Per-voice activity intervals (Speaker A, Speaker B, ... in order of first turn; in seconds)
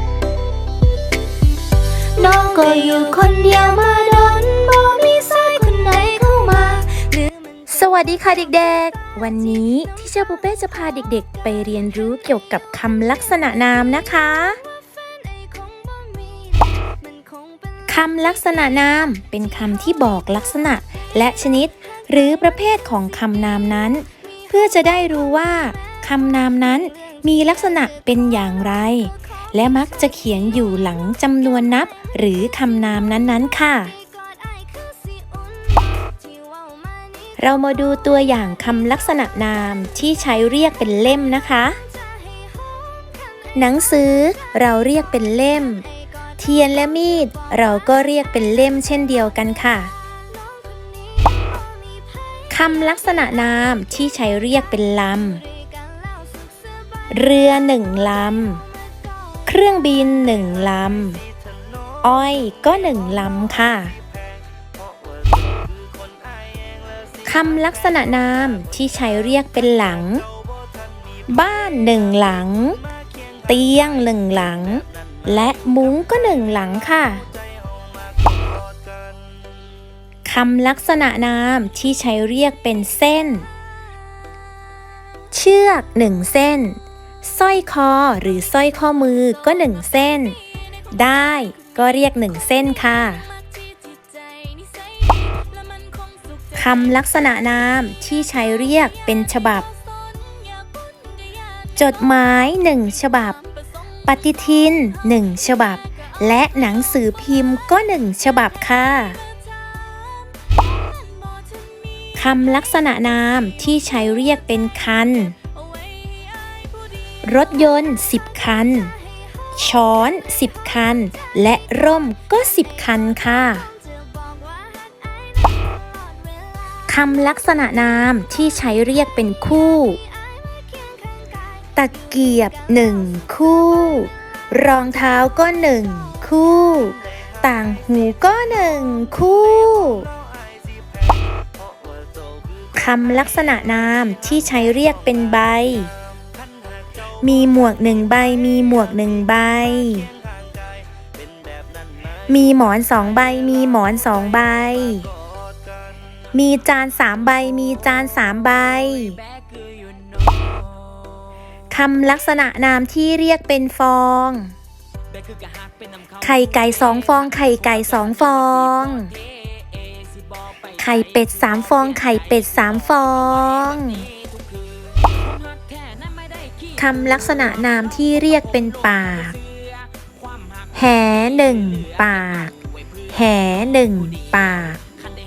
Speaker A: 2.2-7.3, 15.0-17.6, 34.2-37.1, 42.1-43.2, 50.3-52.2, 56.0-56.5, 93.8-96.2, 100.3-100.9, 109.8-111.5, 124.2-126.0
Speaker B: 2.3-3.1, 7.7-14.6, 17.9-33.9, 37.4-41.8, 43.5-45.9, 46.4-49.9, 52.5-55.4, 57.1-58.6, 59.5-61.2, 62.0-63.9, 67.2-70.2, 71.3-72.8, 73.5-77.2, 80.2-83.5, 85.3-90.4, 90.9-93.2, 96.5-99.7, 101.8-103.4, 104.0-109.2, 112.2-115.3, 117.2-118.9, 119.5-123.7, 126.9-130.0, 131.8-140.1, 142.7-145.9, 147.2-150.1, 152.3-155.1, 156.3-159.2, 161.7-164.5, 166.2-169.2, 170.8-174.1, 176.8-179.4, 180.7-182.5, 183.1-184.8